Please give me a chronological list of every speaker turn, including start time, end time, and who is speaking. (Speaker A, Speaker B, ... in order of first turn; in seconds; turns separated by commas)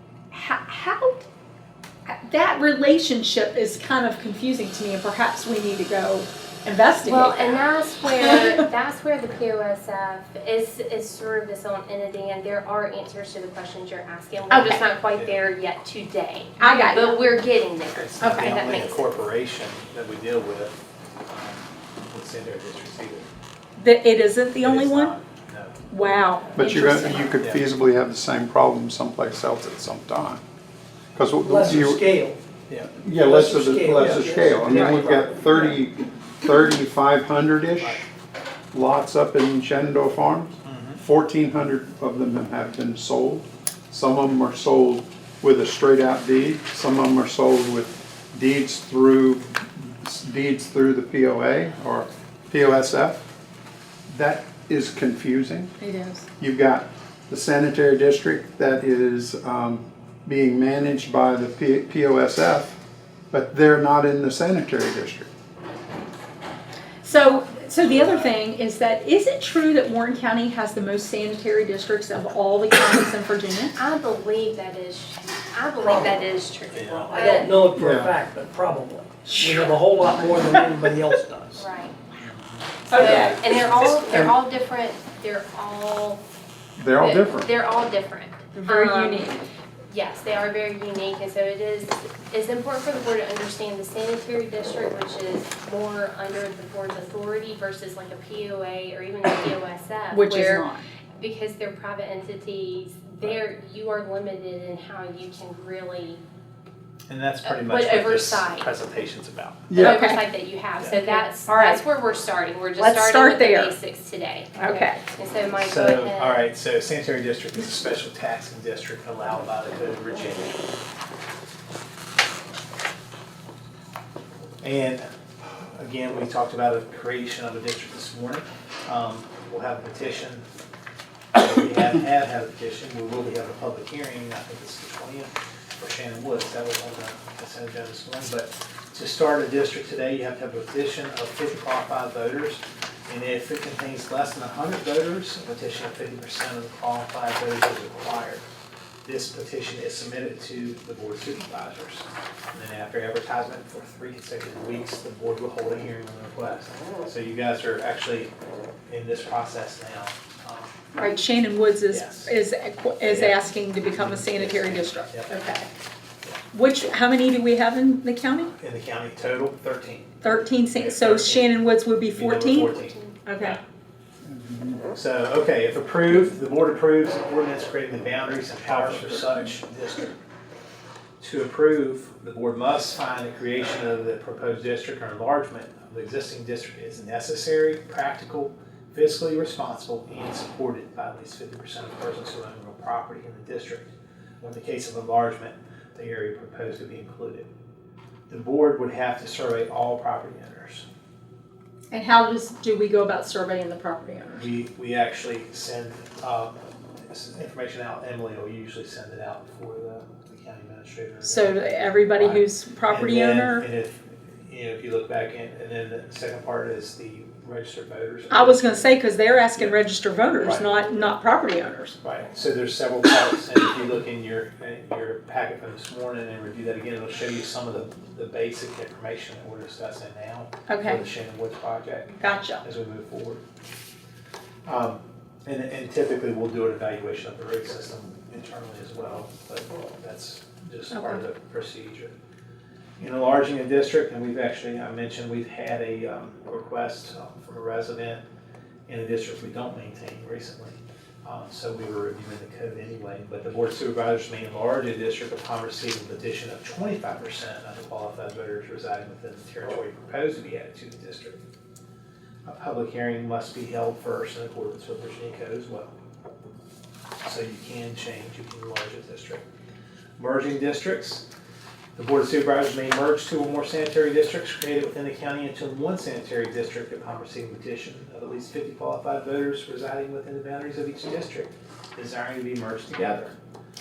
Speaker A: 0.3-1.2, Speaker A: 2.1-7.7, Speaker B: 7.0-19.1, Speaker A: 8.2-8.7, Speaker A: 14.5-14.8, Speaker C: 15.1-15.4, Speaker A: 16.6-17.2, Speaker C: 17.9-23.3, Speaker A: 18.2-18.7, Speaker A: 23.8-25.2, Speaker C: 24.6-25.8, Speaker A: 25.9-27.3, Speaker D: 26.6-30.4, Speaker C: 27.4-27.7, Speaker D: 31.2-32.0, Speaker E: 31.4-32.4, Speaker C: 32.7-33.0, Speaker D: 33.0-38.1, Speaker E: 33.1-35.8, Speaker C: 34.0-35.0, Speaker C: 37.8-38.0, Speaker D: 38.7-53.2, Speaker C: 40.6-41.0, Speaker D: 54.1-55.7, Speaker A: 55.8-56.3, Speaker D: 56.4-62.8, Speaker D: 63.3-65.3, Speaker A: 67.0-73.8, Speaker C: 67.8-68.3, Speaker B: 73.8-77.7, Speaker E: 75.8-76.3, Speaker C: 76.7-77.2, Speaker E: 77.0-81.6, Speaker D: 77.8-78.1, Speaker A: 79.2-79.8, Speaker B: 81.6-82.0, Speaker C: 82.2-84.0, Speaker A: 82.9-83.4, Speaker B: 82.9-86.2, Speaker D: 86.8-87.5, Speaker B: 87.0-89.3, Speaker A: 88.5-89.4, Speaker B: 89.9-106.2, Speaker A: 100.1-100.8, Speaker C: 107.1-109.7, Speaker B: 107.4-108.7, Speaker D: 109.7-110.0, Speaker B: 109.8-116.5, Speaker A: 109.8-110.2, Speaker A: 111.5-111.8, Speaker A: 112.8-113.8, Speaker A: 114.6-115.0, Speaker C: 115.6-120.7, Speaker C: 124.6-130.4, Speaker C: 131.3-148.4, Speaker C: 149.0-158.3, Speaker C: 158.9-160.8, Speaker A: 161.0-165.7, Speaker C: 161.9-162.3, Speaker C: 163.0-165.3, Speaker A: 166.5-168.5, Speaker C: 168.6-170.2, Speaker A: 170.2-173.6, Speaker C: 170.8-171.6, Speaker C: 172.1-173.6, Speaker B: 172.7-173.1, Speaker D: 174.2-174.8, Speaker C: 174.9-180.1, Speaker C: 181.2-197.5, Speaker C: 198.3-200.8, Speaker A: 201.9-204.5, Speaker C: 204.3-206.6, Speaker C: 207.1-219.0, Speaker A: 211.2-213.7, Speaker A: 218.3-222.0, Speaker C: 220.4-221.1, Speaker C: 222.0-232.1, Speaker A: 230.7-231.1, Speaker A: 232.2-232.6, Speaker C: 232.6-233.4, Speaker C: 234.6-242.1, Speaker A: 240.9-241.2, Speaker C: 243.0-248.2, Speaker C: 248.9-261.4, Speaker C: 262.5-265.9, Speaker C: 267.2-269.4, Speaker C: 270.2-271.2, Speaker C: 272.0-283.3